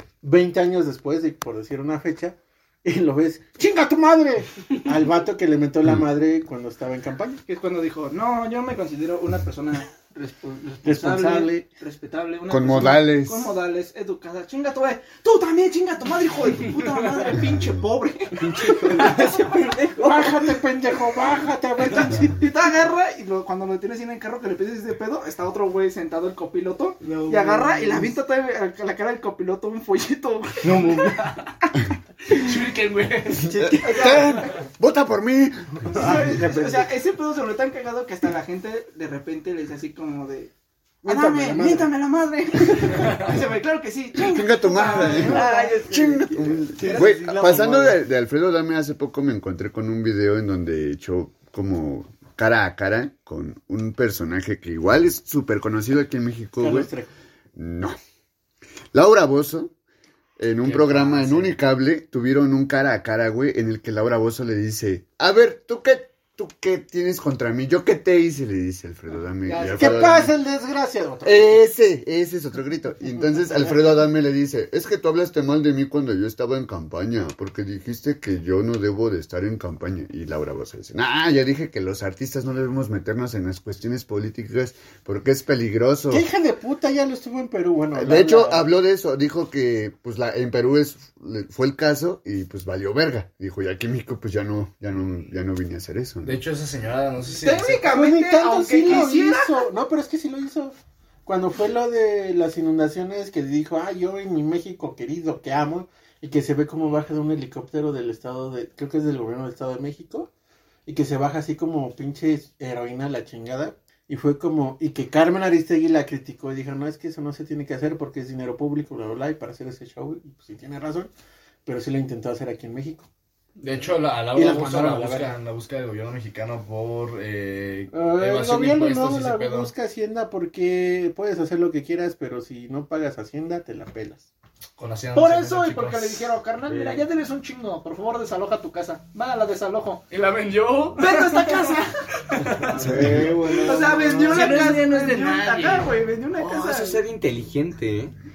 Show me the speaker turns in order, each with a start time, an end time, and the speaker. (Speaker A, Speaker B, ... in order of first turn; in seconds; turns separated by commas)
Speaker A: 0.2-7.4, Speaker B: 7.5-19.3, Speaker A: 10.8-11.7, Speaker C: 12.5-13.5, Speaker D: 18.4-20.5, Speaker A: 20.0-22.5, Speaker B: 22.0-30.9, Speaker D: 27.0-28.1, Speaker D: 30.6-31.3, Speaker E: 30.8-31.5, Speaker E: 32.3-33.5, Speaker A: 33.4-34.4, Speaker C: 33.5-36.2, Speaker B: 33.8-34.6, Speaker B: 35.9-40.5, Speaker D: 35.9-36.9, Speaker A: 41.0-41.9, Speaker B: 41.0-45.9, Speaker C: 44.2-56.9, Speaker D: 45.0-48.0, Speaker B: 46.8-47.2, Speaker A: 56.6-57.1, Speaker C: 57.5-58.0, Speaker C: 58.9-59.7, Speaker C: 60.4-70.3, Speaker D: 60.7-61.3, Speaker B: 69.5-70.1, Speaker A: 69.7-71.6, Speaker C: 71.2-86.3, Speaker A: 86.1-88.7, Speaker C: 87.9-96.4, Speaker E: 96.2-97.9, Speaker B: 97.4-99.7, Speaker A: 97.8-110.3, Speaker A: 110.9-121.1, Speaker A: 121.7-123.1, Speaker E: 123.6-129.7, Speaker A: 124.3-125.3, Speaker A: 127.9-134.2, Speaker E: 134.8-136.2, Speaker B: 135.1-140.0, Speaker D: 136.7-137.1, Speaker E: 140.1-143.3, Speaker B: 141.0-142.0, Speaker D: 142.6-144.6, Speaker C: 142.8-143.3, Speaker B: 143.5-147.0, Speaker E: 144.2-146.0, Speaker D: 146.4-148.1